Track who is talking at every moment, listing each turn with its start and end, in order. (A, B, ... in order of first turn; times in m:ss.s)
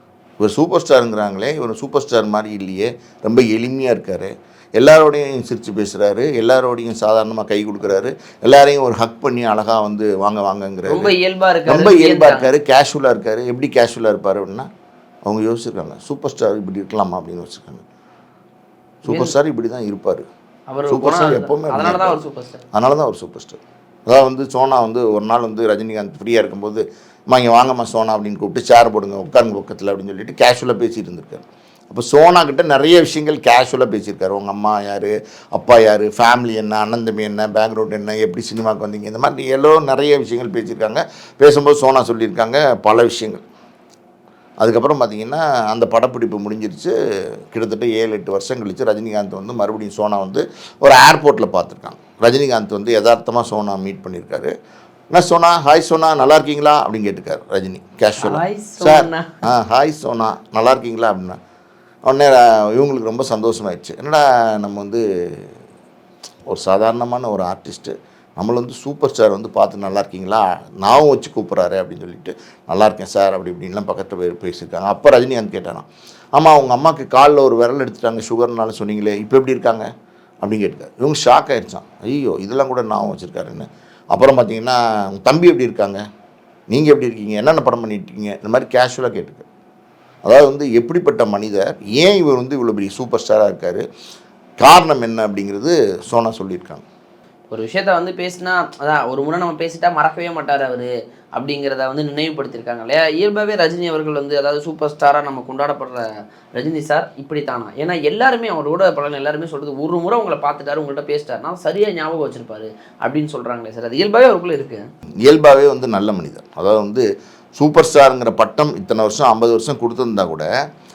0:00.4-0:11.1 A
0:10.8-0:12.5 B
0:11.6-0:14.7 A
0:15.3-0:17.8 A
0:19.0-0:20.2 A
0:19.1-0:19.4 B
0:20.7-0:22.7 B
0:20.9-0:22.2 A
0:22.7-0:43.4 A
0:44.6-0:46.9 A
0:47.5-0:54.5 A
0:55.1-1:01.4 A
0:58.2-0:59.4 B
1:02.0-1:05.5 A
1:06.5-1:19.9 A
1:20.4-1:26.0 A
1:26.7-1:29.5 A
1:30.2-1:33.8 A
1:34.6-1:36.8 A
1:37.5-1:54.8 B
1:55.2-1:57.0 A
1:57.6-2:00.5 A